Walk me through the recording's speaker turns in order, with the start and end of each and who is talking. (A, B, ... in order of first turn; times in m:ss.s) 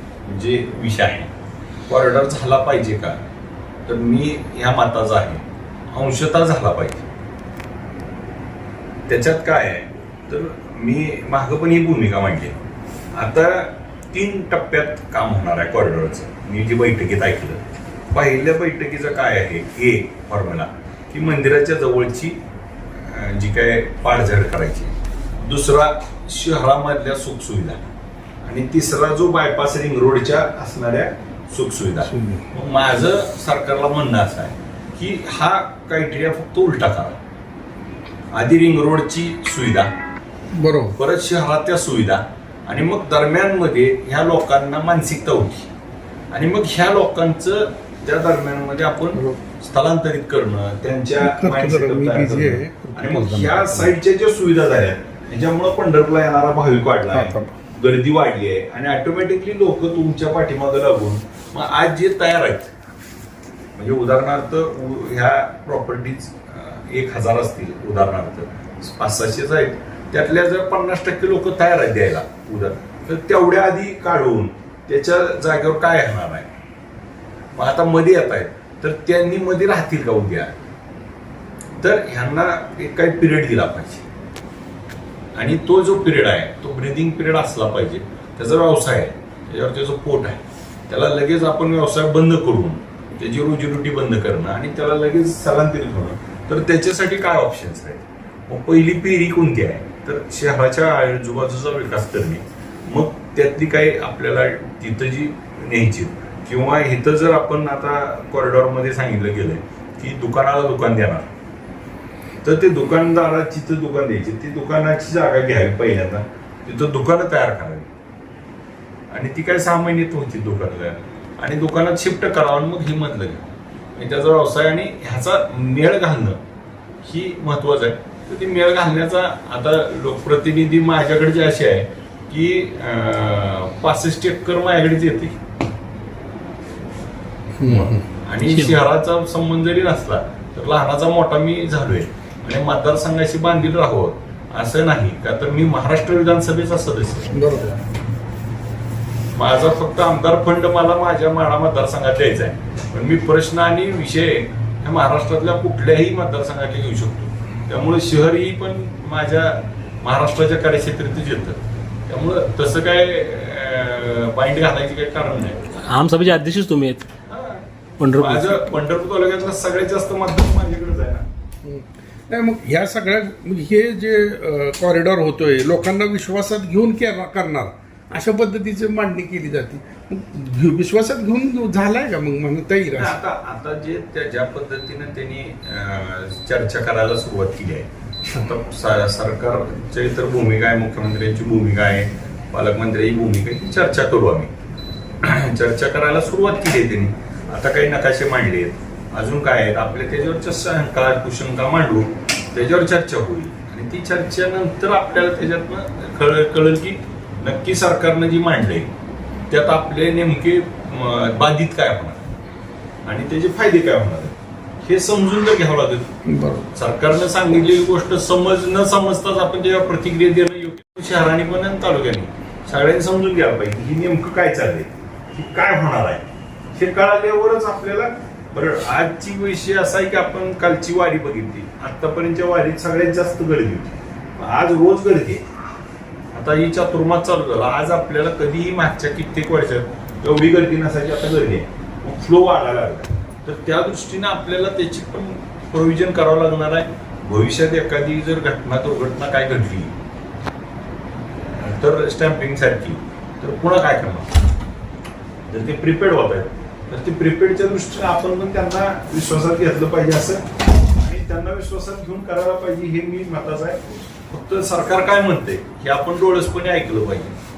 0:00.3-0:01.3 A
0:01.9-0:03.2 A
0:03.9-0:07.1 A
0:09.1-0:12.6 A
0:13.1-0:22.4 A
0:22.9-0:27.8 A
0:28.4-0:37.2 A
0:32.1-0:32.4 B
0:38.3-0:39.9 A
0:40.5-0:41.0 B
0:41.0-0:45.7 A
0:46.3-1:02.7 A
0:51.2-0:53.9 B
0:57.1-0:57.5 B
1:03.8-1:16.5 A
1:17.5-1:20.6 A
1:21.8-1:24.0 A
1:25.3-1:51.3 A
1:52.4-1:57.9 A
1:59.1-2:06.4 A
2:07.0-2:15.4 A
2:17.6-2:18.0 B
2:17.6-2:27.3 A
2:18.4-2:18.8 C
2:27.3-2:27.7 B
2:29.3-2:45.6 A
2:45.8-2:47.0 C
2:47.3-2:47.6 A
2:48.0-2:48.7 C
2:48.2-2:51.2 A
2:51.6-3:03.1 B
3:03.0-3:14.5 A
3:15.2-3:28.9 A
3:29.5-3:32.2 A
3:33.0-3:36.1 A
3:36.2-3:36.6 B
3:36.7-3:55.4 A
3:56.3-4:09.9 A
4:11.5-4:14.3 A
4:15.5-4:20.4 A
4:21.0-4:27.3 A